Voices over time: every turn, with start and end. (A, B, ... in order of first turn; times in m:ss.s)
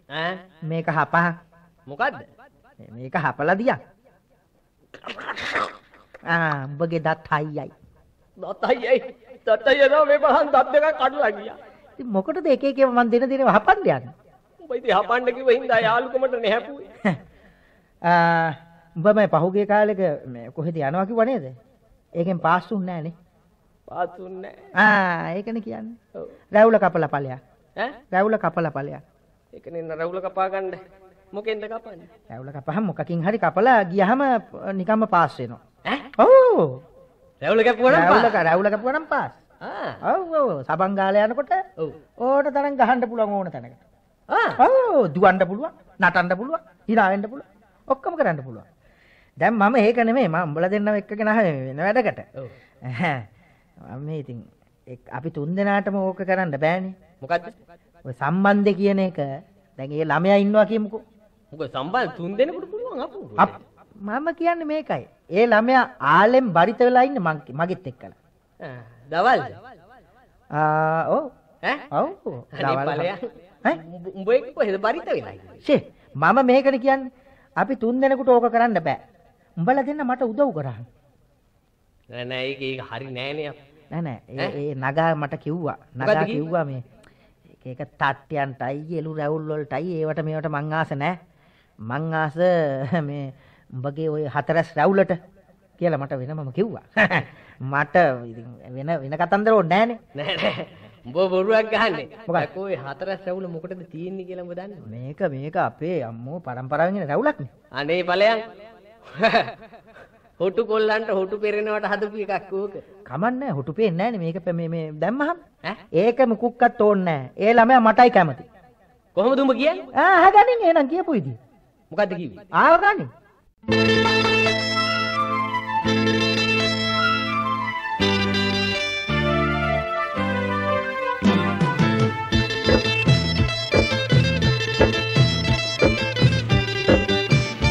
0:00.1-0:00.4 A
0:00.6-0:01.3 B
0:01.9-0:02.2 A
0:02.8-0:03.8 B
0:05.0-0:05.6 A
0:06.2-0:07.7 B
0:08.4-0:11.6 A
0:12.0-0:14.1 B
0:14.6-0:16.9 A
0:18.0-0:21.5 B
0:22.2-0:23.2 B
0:23.9-0:24.6 A
0:24.8-0:26.0 B
0:26.5-0:27.4 B
0:28.1-0:29.0 B
0:29.5-0:30.8 A
0:31.3-0:32.1 A
0:32.3-0:35.6 B
0:36.2-0:36.8 B
0:37.4-0:38.4 A
0:37.9-0:39.4 B
0:39.6-0:40.0 A
0:40.0-0:41.6 B
0:42.2-0:43.8 B
0:44.3-0:44.6 A
0:44.6-0:48.7 B
0:49.4-0:52.3 B
0:52.8-0:53.2 B
0:53.9-0:56.9 B
0:57.2-0:57.6 A
0:58.1-1:01.0 B
1:01.5-1:03.6 A
1:03.4-1:08.2 B
1:08.6-1:09.6 A
1:10.5-1:11.3 B
1:11.9-1:13.1 B
1:12.6-1:15.6 A
1:15.6-1:17.0 B
1:17.6-1:19.0 B
1:19.6-1:20.8 B
1:22.1-1:23.6 A
1:23.9-1:26.8 B
1:26.0-1:26.5 A
1:27.6-1:31.2 B
1:31.9-1:35.2 B
1:35.8-1:40.0 B
1:40.2-1:44.8 A
1:44.8-1:47.5 B
1:47.8-1:48.4 A
1:49.1-1:49.5 A
1:50.4-1:52.8 A
1:53.0-1:55.4 B
1:55.9-1:58.4 B
1:59.1-1:59.9 A
1:59.9-2:01.4 B
2:01.9-2:02.4 A
2:02.5-2:03.1 B